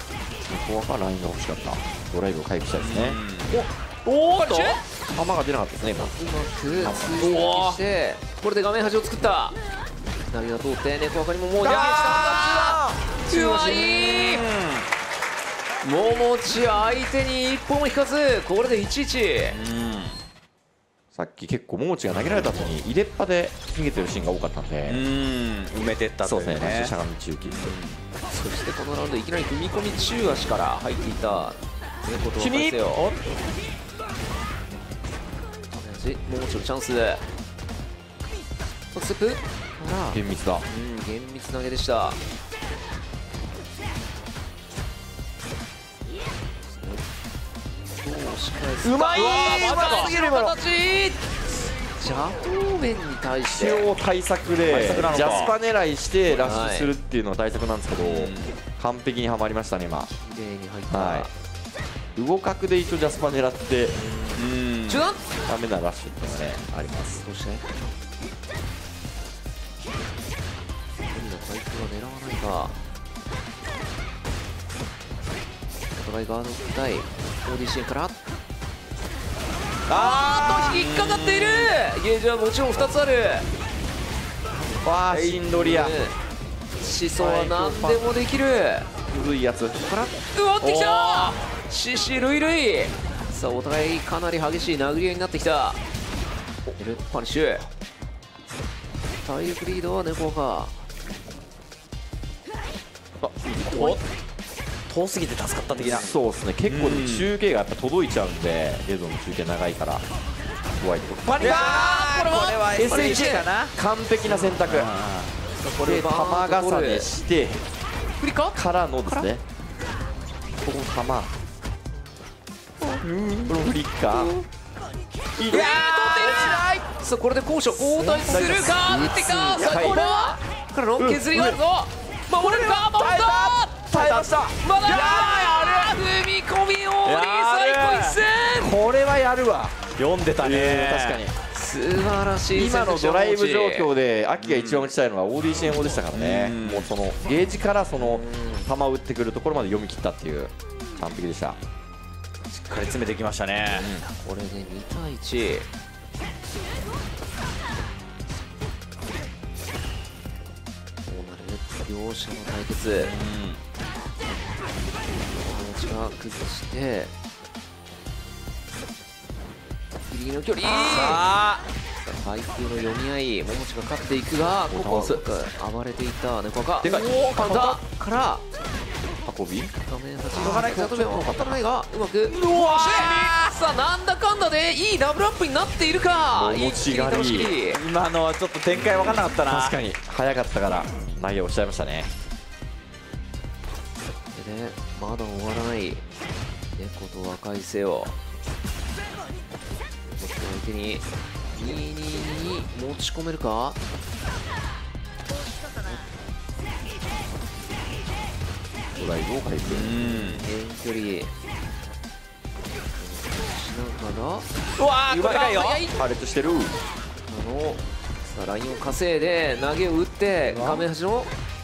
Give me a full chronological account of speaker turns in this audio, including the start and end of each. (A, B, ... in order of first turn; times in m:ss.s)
0:00.5-0:03.2 A
0:02.7-0:04.8 B
0:04.3-0:04.8 C
0:05.1-0:06.1 A
0:05.9-0:09.6 C
0:06.7-0:07.4 A
0:07.2-0:07.8 B
0:10.3-0:14.5 C
0:11.6-0:13.9 A
0:13.3-0:14.8 B
0:15.8-0:19.6 C
0:19.5-0:20.2 B
0:21.1-0:25.0 A
0:24.8-0:28.0 B
0:26.2-0:27.7 A
0:28.3-0:33.1 C
0:32.4-0:33.2 B
0:35.7-0:37.2 C
0:38.9-0:42.2 C
0:40.1-0:40.7 A
0:46.7-0:47.0 C
0:48.0-0:51.3 C
0:48.8-0:50.6 A
0:49.1-0:50.2 B
0:52.0-0:53.9 C
0:53.4-1:00.1 A
0:54.6-0:55.5 B
0:55.0-0:55.3 C
0:56.3-0:56.9 C
0:58.0-0:58.6 B
1:00.1-1:01.3 C
1:00.9-1:01.3 A
1:02.2-1:04.0 A
1:04.0-1:05.2 C
1:04.3-1:05.0 B
1:05.4-1:07.2 A
1:07.2-1:07.9 C
1:11.0-1:12.8 C
1:15.9-1:18.2 C
1:19.9-1:21.7 B
1:19.9-1:23.5 C
1:20.1-1:20.7 A
1:24.5-1:25.9 A
1:25.1-1:25.9 B
1:25.5-1:26.1 C
1:26.8-1:28.9 C
1:27.2-1:28.0 A
1:29.1-1:29.8 A
1:29.8-1:35.8 C
1:30.6-1:31.4 B
1:36.8-1:37.7 C
1:39.2-1:40.8 C
1:43.2-1:44.0 A
1:43.6-1:44.0 B
1:44.9-1:46.1 B
1:45.7-1:50.0 A
1:45.8-1:46.1 C
1:46.6-1:47.3 B
1:50.8-1:51.8 A
1:51.3-1:53.7 B
1:51.4-1:53.5 C
1:52.7-1:54.9 A
1:54.2-1:54.6 C
1:54.6-1:55.3 B
1:55.6-1:57.1 C
1:55.8-1:57.6 A
1:58.2-1:59.3 C
1:58.5-1:59.4 A
2:00.6-2:01.3 A
2:03.0-2:04.4 A
2:03.1-2:03.5 B
2:04.1-2:04.4 C
2:05.4-2:06.9 A
2:05.5-2:18.8 C
2:07.8-2:10.1 A
2:08.0-2:08.5 B
2:11.0-2:11.6 A
2:12.3-2:15.9 A
2:14.8-2:15.9 B
2:17.0-2:18.2 B
2:18.5-2:21.3 A
2:20.0-2:21.2 B
2:21.5-2:23.9 C
2:22.5-2:31.6 A
2:24.4-2:24.9 B
2:26.1-2:26.9 B
2:28.0-2:28.7 C
2:32.5-2:33.9 B
2:33.7-2:34.1 A
2:34.2-2:35.7 C
2:41.0-2:43.1 C
2:43.0-2:43.6 B
2:45.3-2:47.1 C
2:50.1-2:51.3 C
2:50.6-2:51.6 B
2:52.0-2:58.4 C
2:54.7-2:55.2 A
2:56.8-2:57.7 B
2:56.8-2:57.8 A
2:59.2-2:59.7 A
2:59.9-3:07.8 C
3:00.3-3:01.6 A
3:00.3-3:01.1 B
3:02.3-3:03.5 B
3:06.3-3:07.5 A
3:07.6-3:09.8 B
3:08.7-3:12.1 A
3:14.3-3:16.0 C
3:16.8-3:18.1 C
3:20.1-3:23.8 C
3:28.9-3:30.0 A
3:29.6-3:30.4 B
3:30.0-3:31.3 C
3:32.9-3:34.5 C
3:34.8-3:35.8 B
3:35.1-3:36.8 A
3:35.1-3:35.9 C
3:37.3-3:41.3 C
3:40.5-3:40.9 B